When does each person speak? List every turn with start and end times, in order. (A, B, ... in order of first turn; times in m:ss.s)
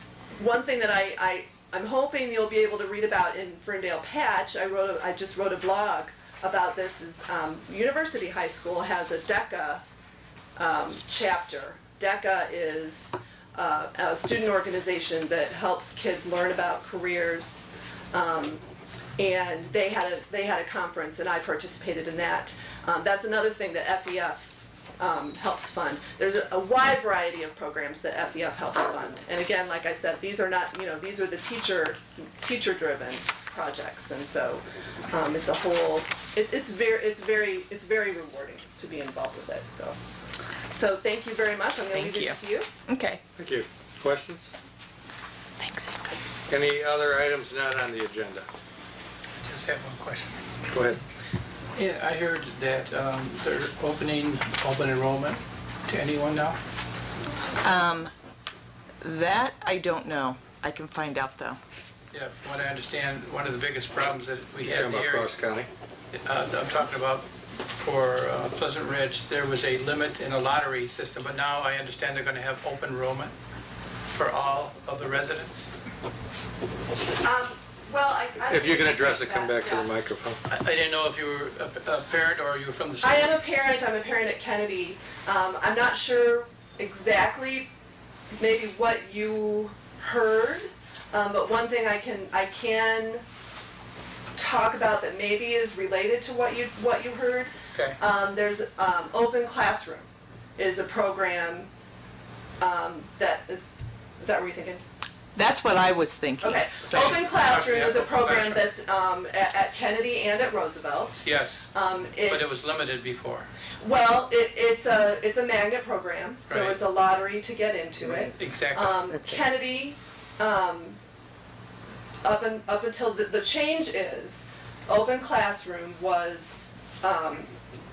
0:00.4-0:09.8 A
0:10.6-0:18.6 A
0:19.2-0:40.0 A
0:40.7-0:42.7 A
0:41.9-0:43.2 B
0:43.4-0:44.5 C
0:45.6-0:46.2 B
0:46.5-0:48.5 C
0:49.4-0:50.4 D
0:50.7-0:51.0 C
0:51.7-0:56.6 D
0:57.6-0:58.1 B
0:59.0-1:01.6 B
1:02.1-1:05.3 D
1:04.6-1:05.7 C
1:06.1-1:13.3 D
1:14.1-1:15.7 D
1:17.2-1:20.0 A
1:18.5-1:20.4 C
1:20.5-1:23.3 D
1:23.0-1:27.7 A
1:28.4-1:33.2 A
1:34.4-1:41.7 A
1:37.7-1:38.0 D
1:42.6-1:44.8 A
1:45.3-1:47.1 B
1:46.4-1:52.4 A
1:46.9-1:48.6 D
1:51.2-1:51.7 D
1:52.2-1:53.5 D
1:53.8-2:01.0 A
1:56.5-1:56.8 D
1:58.3-1:59.0 D
2:02.2-2:07.5 A